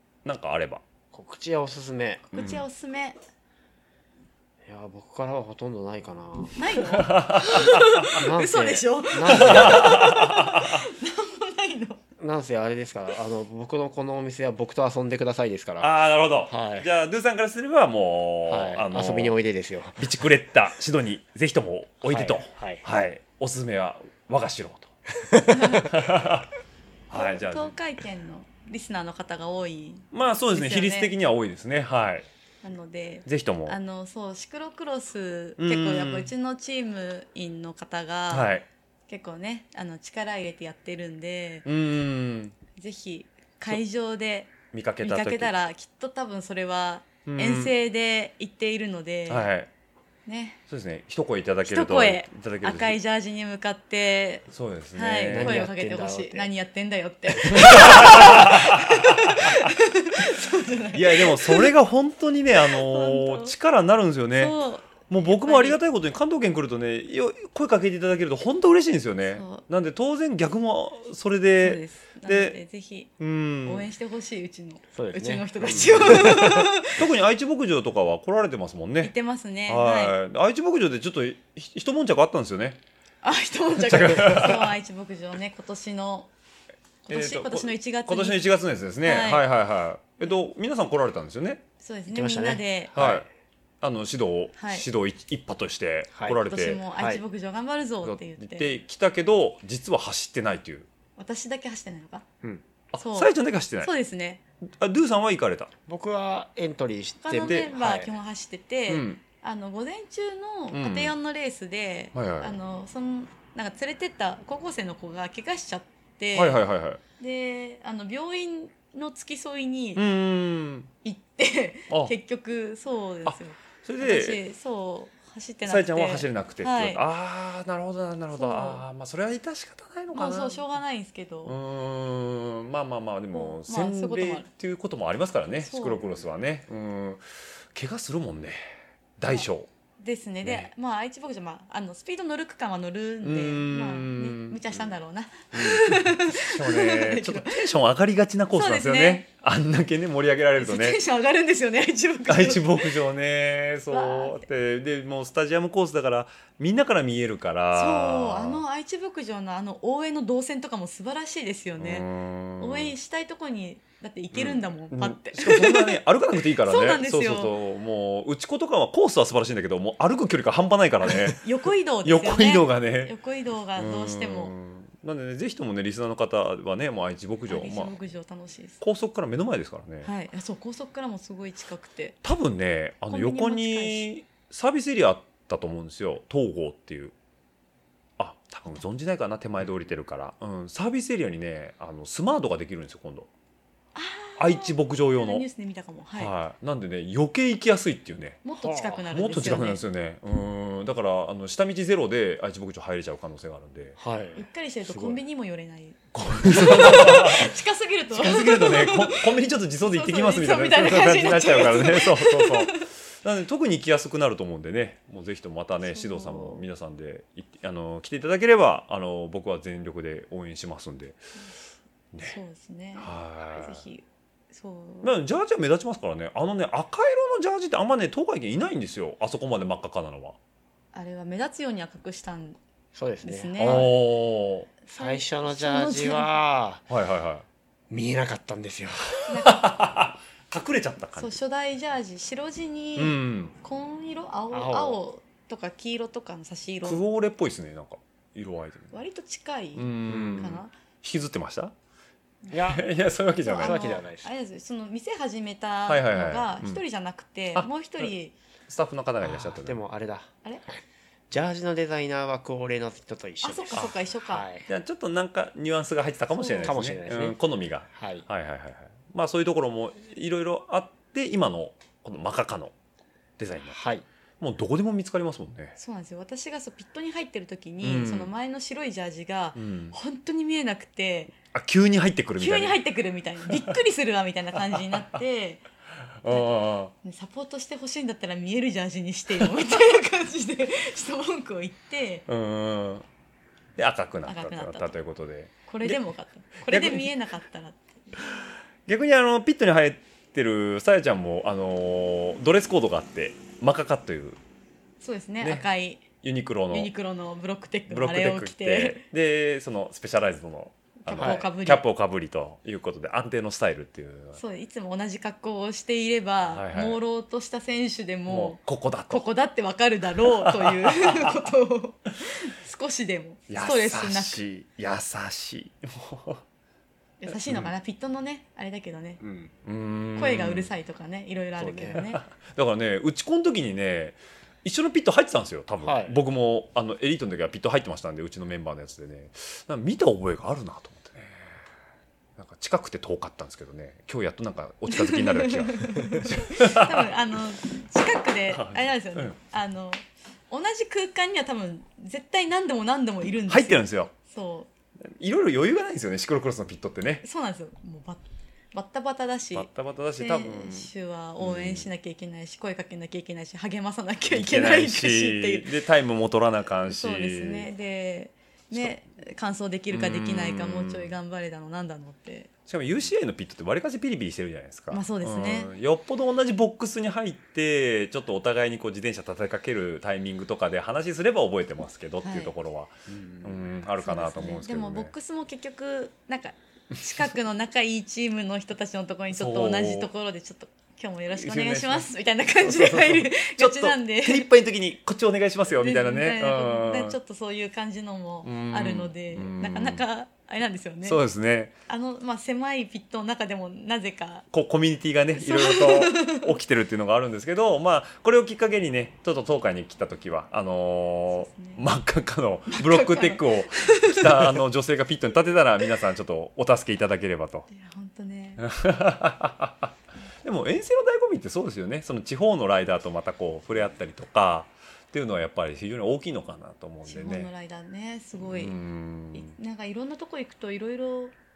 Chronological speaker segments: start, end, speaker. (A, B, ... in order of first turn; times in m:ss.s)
0:00.2-0:00.8 A
0:01.1-0:02.2 B
0:02.3-0:02.6 A
0:02.3-0:03.2 C
0:04.6-0:06.8 B
0:06.6-0:12.0 C
0:06.9-0:07.8 A
0:08.1-0:10.0 B
0:09.3-0:10.8 A
0:12.2-0:16.9 B
0:15.8-0:19.4 A
0:18.5-0:20.2 B
0:20.0-0:24.9 A
0:22.0-0:22.8 B
0:25.2-0:25.9 B
0:25.5-0:25.8 C
0:25.8-0:26.5 A
0:27.1-0:27.7 A
0:27.1-0:31.1 C
0:30.1-0:32.2 A
0:32.6-0:38.5 C
0:33.2-0:33.8 A
0:35.6-0:36.3 A
0:38.3-0:38.6 A
0:39.1-0:41.6 C
0:41.6-0:42.5 A
0:42.8-0:49.5 C
0:44.7-0:45.5 A
0:47.2-0:47.7 A
0:49.3-0:49.7 A
0:50.2-0:50.6 C
0:50.7-0:53.0 A
0:51.6-1:01.7 C
0:54.5-0:55.7 A
0:55.2-0:56.5 B
0:57.4-0:59.7 A
1:00.9-1:12.6 A
1:02.7-1:03.5 C
1:04.4-1:05.8 C
1:09.3-1:09.6 C
1:11.6-1:13.1 C
1:13.2-1:13.9 A
1:13.6-1:17.0 C
1:14.9-1:16.6 B
1:15.6-1:16.3 A
1:16.9-1:19.1 A
1:19.0-1:20.2 C
1:19.7-1:22.8 A
1:23.2-1:26.3 C
1:23.8-1:24.7 A
1:27.1-1:28.4 C
1:27.1-1:31.6 A
1:29.0-1:29.5 C
1:31.8-1:33.0 C
1:32.1-1:33.3 B
1:32.9-1:33.2 A
1:33.8-1:36.8 A
1:34.6-1:34.9 C
1:36.1-1:36.4 B
1:36.4-1:38.8 C
1:37.0-1:37.2 B
1:38.0-1:40.9 A
1:41.2-1:42.2 C
1:42.9-1:43.9 A
1:43.0-1:44.4 C
1:44.8-1:45.7 A
1:45.9-1:48.1 B
1:47.2-1:56.6 C
1:47.4-1:47.7 A
1:48.9-1:49.2 A
1:50.7-1:51.1 A
1:52.1-1:52.6 A
1:56.3-1:57.0 A
1:57.2-2:00.0 C
2:00.0-2:00.9 A
2:01.0-2:07.0 C
2:03.2-2:04.4 A
2:05.6-2:10.6 A
2:08.3-2:08.8 C
2:10.1-2:11.5 C
2:11.4-2:17.2 A
2:13.3-2:14.5 C
2:15.6-2:16.0 C
2:17.7-2:18.6 A
2:19.2-2:19.7 A
2:20.0-2:27.6 C
2:20.4-2:20.7 A
2:23.2-2:24.9 A
2:25.5-2:31.0 A
2:28.5-2:29.2 C
2:30.6-2:33.0 C
2:32.3-2:38.6 A
2:33.9-2:34.4 C
2:37.7-2:42.1 C
2:41.8-2:42.9 A
2:42.6-2:47.5 C
2:44.3-2:51.5 A
2:51.0-2:54.5 C
2:52.0-2:53.1 A
2:53.8-2:58.0 A
2:57.5-2:58.8 C
2:58.8-3:00.1 A
3:00.0-3:02.2 C
3:02.2-3:07.1 A
3:03.1-3:04.1 C
3:08.2-3:13.3 A
3:13.9-3:16.3 C
3:14.4-3:15.4 A
3:16.2-3:18.4 A
3:18.4-3:19.8 C
3:18.6-3:19.0 B
3:19.1-3:24.0 A
3:24.0-3:25.2 B
3:24.4-3:32.9 C
3:26.1-3:27.5 A
3:28.1-3:41.2 A
3:35.8-3:36.6 C
3:42.1-3:42.4 A
3:42.2-3:45.1 C
3:43.0-3:43.8 A
3:45.0-3:50.4 A
3:50.9-3:52.6 C
3:52.9-3:53.9 B
3:53.2-3:53.9 C
3:53.6-3:54.7 A
3:54.8-3:56.3 C
3:55.0-3:56.8 B
3:56.9-3:57.4 A
3:57.9-3:59.3 B
3:59.3-3:59.6 C
3:59.3-4:01.3 A
4:01.2-4:07.0 C
4:03.0-4:03.5 A
4:04.5-4:05.0 B
4:06.8-4:08.9 A
4:08.9-4:10.7 C
4:09.8-4:11.7 A
4:10.0-4:10.6 B
4:12.5-4:12.8 B
4:12.6-4:14.0 A
4:13.4-4:18.3 C
4:13.6-4:14.3 B
4:15.9-4:16.8 A
4:17.5-4:18.1 A
4:18.7-4:19.8 A
4:19.2-4:20.3 B
4:21.3-4:24.7 B
4:23.4-4:24.5 C
4:24.7-4:32.7 A
4:26.3-4:26.8 C
4:26.6-4:27.4 B
4:27.9-4:28.2 B
4:33.4-4:33.8 A
4:33.7-4:34.0 B
4:34.4-4:35.8 A
4:35.8-4:41.3 C
4:37.8-4:38.3 A
4:39.6-4:39.9 A
4:41.5-4:42.8 A
4:42.4-4:45.6 C
4:44.7-4:45.0 A
4:46.2-4:46.9 A
4:46.3-4:52.3 C
4:52.3-4:53.0 A
4:53.8-4:56.0 A
4:54.2-4:54.9 C
4:55.7-4:58.0 C
4:56.7-4:57.1 A
4:58.9-5:04.4 A
5:05.0-5:06.1 C
5:06.2-5:06.9 A
5:06.7-5:09.0 C
5:07.9-5:14.4 A
5:11.0-5:11.8 C
5:11.1-5:11.5 B
5:14.4-5:24.4 C
5:16.4-5:17.0 A
5:18.3-5:19.3 A
5:20.3-5:21.5 A
5:23.5-5:26.4 A
5:27.2-5:29.2 C
5:29.2-5:29.5 B
5:29.6-5:30.7 A
5:30.2-5:32.2 C
5:31.6-5:32.0 B
5:31.9-5:41.5 A
5:35.8-5:36.2 B
5:42.4-5:47.1 A
5:44.9-5:54.7 C
5:48.5-5:49.4 A
5:53.5-5:54.1 A
5:55.0-5:57.2 A
5:57.2-6:05.7 C
5:59.5-6:01.9 A
6:04.3-6:07.7 A
6:06.9-6:12.5 C
6:09.9-6:11.2 A
6:12.7-6:25.1 A
6:14.9-6:15.7 C
6:22.2-6:22.5 C
6:24.0-6:34.5 C
6:29.3-6:30.1 A
6:31.3-6:32.1 A
6:32.6-6:37.2 A
6:35.7-6:41.2 C
6:38.4-6:40.0 A
6:41.0-6:41.7 A
6:41.9-6:44.4 C
6:44.5-6:57.7 A
6:45.4-6:46.5 C
6:51.3-6:51.8 C
6:52.7-6:54.6 C
6:57.7-6:58.6 C
6:58.6-6:59.9 A
7:00.4-7:07.5 A
7:07.0-7:08.8 C
7:08.4-7:09.6 A
7:09.3-7:11.3 C